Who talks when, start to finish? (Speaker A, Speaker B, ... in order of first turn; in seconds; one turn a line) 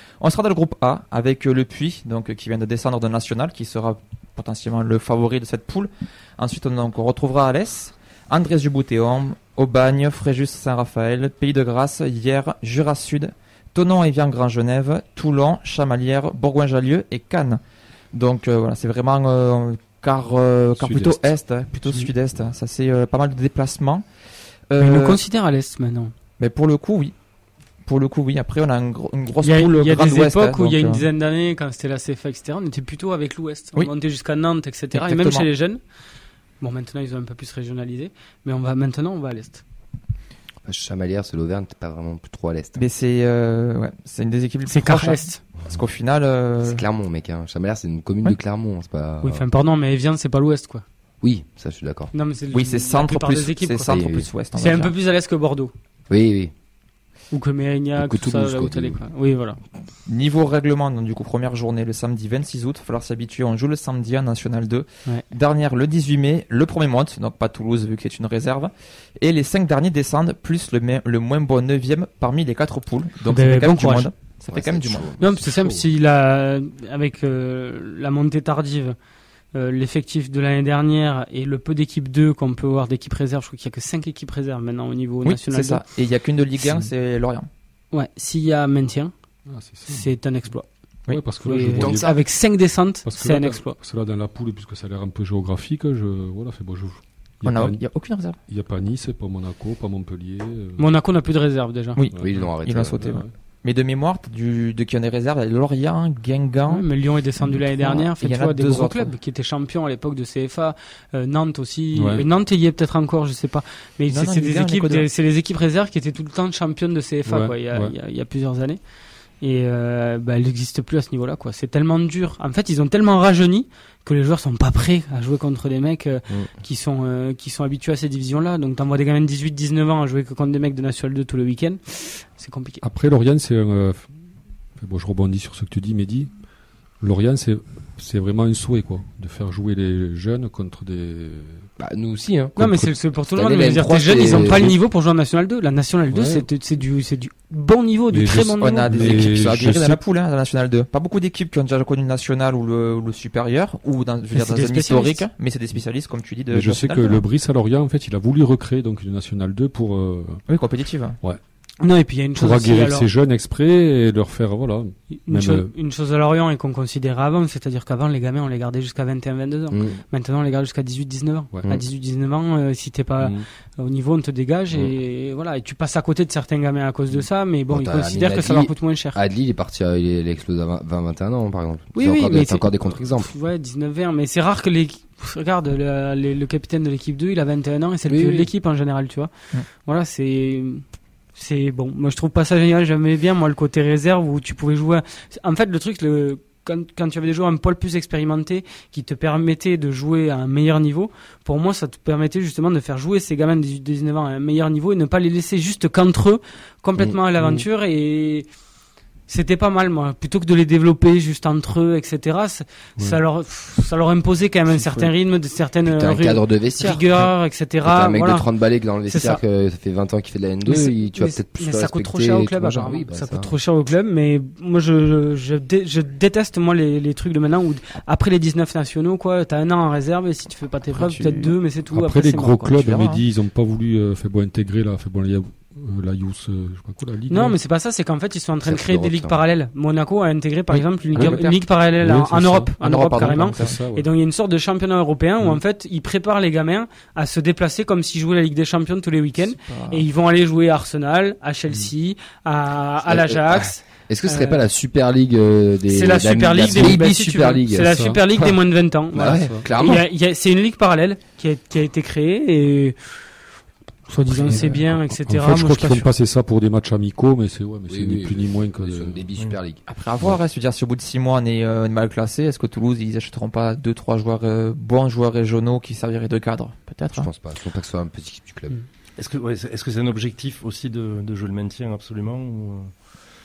Speaker A: 0.2-17.6
Speaker A: 18.1-24.0
Speaker B: 20.8-21.3
Speaker A: 24.7-25.2
Speaker C: 24.8-26.1
Speaker A: 26.4-27.1
Speaker A: 27.8-31.1
Speaker C: 29.4-35.8
Speaker A: 34.9-35.5
Speaker C: 36.6-39.6
Speaker D: 40.6-42.8
Speaker A: 42.7-46.8
Speaker C: 44.6-45.4
Speaker D: 46.6-49.5
Speaker C: 49.2-50.8
Speaker D: 51.2-52.1
Speaker C: 52.1-54.0
Speaker A: 52.5-54.9
Speaker D: 53.9-54.3
Speaker C: 54.5-55.7
Speaker D: 56.1-56.5
Speaker C: 57.3-59.6
Speaker D: 58.0-59.0
Speaker A: 60.0-75.1
Speaker C: 73.2-74.1
Speaker D: 74.5-75.4
Speaker C: 75.2-79.0
Speaker C: 79.5-85.8
Speaker A: 85.2-87.5
Speaker C: 87.9-89.1
Speaker B: 89.5-90.1
Speaker C: 89.8-90.7
Speaker B: 91.1-92.1
Speaker C: 91.4-93.8
Speaker D: 91.8-92.1
Speaker B: 93.0-97.9
Speaker A: 97.4-98.4
Speaker B: 98.5-100.9
Speaker C: 100.8-102.0
Speaker A: 102.0-106.9
Speaker B: 102.1-103.3
Speaker D: 102.2-103.1
Speaker C: 106.7-118.8
Speaker A: 107.4-109.1
Speaker B: 111.9-112.2
Speaker A: 114.1-115.0
Speaker B: 117.2-117.9
Speaker C: 119.4-132.8
Speaker B: 132.8-134.1
Speaker B: 134.8-136.3
Speaker B: 137.0-141.7
Speaker D: 141.8-142.5
Speaker B: 142.6-142.9
Speaker C: 142.6-149.0
Speaker D: 143.3-144.8
Speaker B: 144.3-144.6
Speaker B: 146.1-146.5
Speaker B: 148.1-150.0
Speaker A: 148.5-157.2
Speaker C: 154.3-155.2
Speaker B: 156.5-160.4
Speaker A: 160.5-161.2
Speaker C: 161.8-163.1
Speaker B: 162.3-165.7
Speaker C: 165.2-179.2
Speaker D: 169.7-170.0
Speaker B: 171.5-171.8
Speaker B: 173.2-173.4
Speaker D: 177.7-183.3
Speaker C: 181.9-189.3
Speaker D: 188.1-188.5
Speaker C: 189.8-190.8
Speaker C: 191.3-208.5
Speaker B: 207.4-207.6
Speaker C: 209.3-218.5
Speaker B: 214.7-215.1
Speaker D: 215.8-217.3
Speaker D: 217.8-223.5
Speaker C: 219.0-219.4
Speaker C: 220.6-232.9
Speaker A: 230.9-231.6
Speaker B: 231.8-237.6
Speaker A: 232.9-233.2
Speaker C: 237.3-254.6
Speaker D: 238.6-239.4
Speaker A: 240.7-241.6
Speaker B: 241.8-244.1
Speaker D: 242.8-243.1
Speaker A: 242.9-243.8
Speaker A: 249.5-250.1
Speaker D: 253.1-258.6
Speaker C: 255.9-263.2
Speaker B: 256.7-257.0
Speaker B: 257.8-258.2
Speaker D: 259.1-260.1
Speaker B: 259.1-259.7
Speaker C: 264.1-266.1
Speaker B: 264.3-269.2
Speaker D: 267.9-269.9
Speaker A: 269.9-277.3
Speaker D: 277.1-278.7
Speaker E: 279.2-282.9